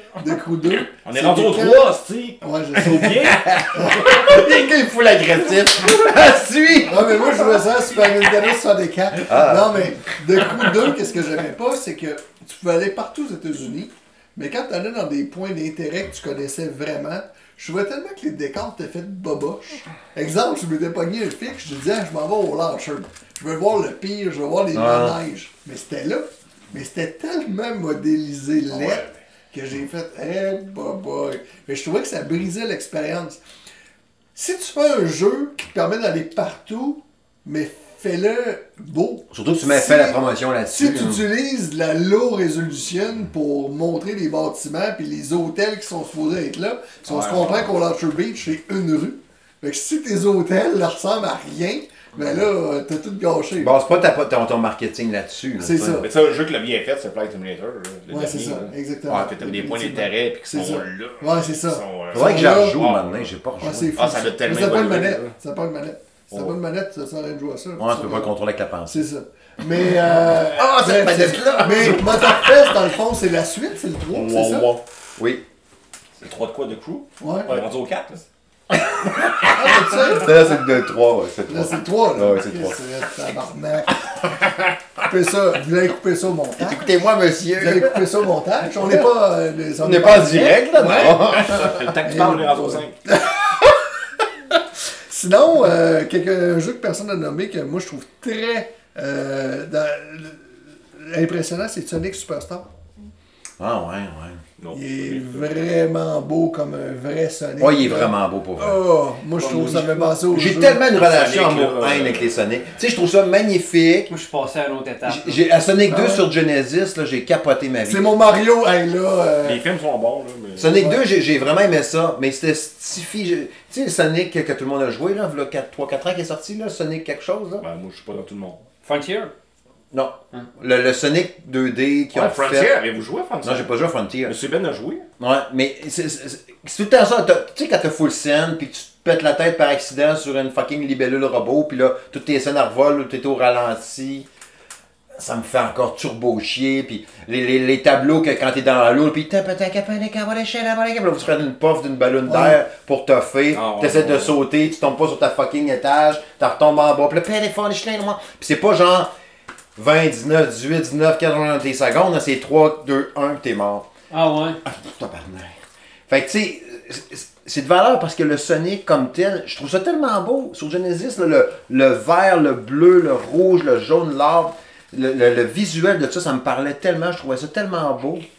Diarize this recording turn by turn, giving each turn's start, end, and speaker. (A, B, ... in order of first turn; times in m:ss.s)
0:00.2-0:04.4 A
0:01.0-0:04.2 B
0:03.5-0:07.6 C
0:06.8-0:33.4 A
0:09.2-0:09.9 C
0:24.7-0:25.2 C
0:28.7-0:29.1 B
0:34.3-0:40.2 A
0:39.3-0:41.2 C
0:40.7-0:53.8 A
0:47.0-0:47.7 B
0:53.6-0:56.0 C
0:55.6-0:56.1 A
0:55.9-1:03.3 B
0:58.1-1:02.8 A
1:02.1-1:03.9 C
1:03.6-1:08.3 A
1:04.0-1:05.3 B
1:06.3-1:06.6 B
1:07.8-1:09.0 C
1:08.9-1:14.7 A
1:10.6-1:12.8 C
1:14.1-1:15.4 C
1:16.2-1:18.2 B
1:17.2-1:17.6 A
1:18.7-1:22.8 C
1:19.5-1:20.3 A
1:21.5-1:24.0 A
1:25.0-1:26.9 A
1:26.6-1:28.0 C
1:27.6-1:33.8 A
1:29.8-1:31.8 C
1:31.1-1:33.0 B
1:34.5-1:42.7 A
1:43.6-1:44.4 C
1:44.6-1:45.5 B
1:44.7-1:50.8 A
1:47.6-1:48.8 C
1:49.3-1:50.1 D
1:50.3-1:54.1 C
1:50.9-1:52.4 B
1:54.1-1:55.4 D
1:55.0-1:58.1 C
1:55.8-1:56.2 A
1:57.8-1:59.6 A
1:59.4-2:00.8 B
2:00.6-2:07.6 C
2:00.7-2:01.0 A
2:07.6-2:08.6 B
2:08.8-2:09.3 D
2:09.9-2:12.7 C
2:12.1-2:13.7 B
2:13.4-2:14.3 C
2:14.2-2:15.0 B
2:15.2-2:24.3 C
2:25.2-2:39.1 C
2:32.2-2:32.6 A
2:33.5-2:34.4 B
2:39.8-2:43.9 C
2:44.1-2:44.6 D
2:44.6-2:45.5 C
2:46.1-2:58.2 C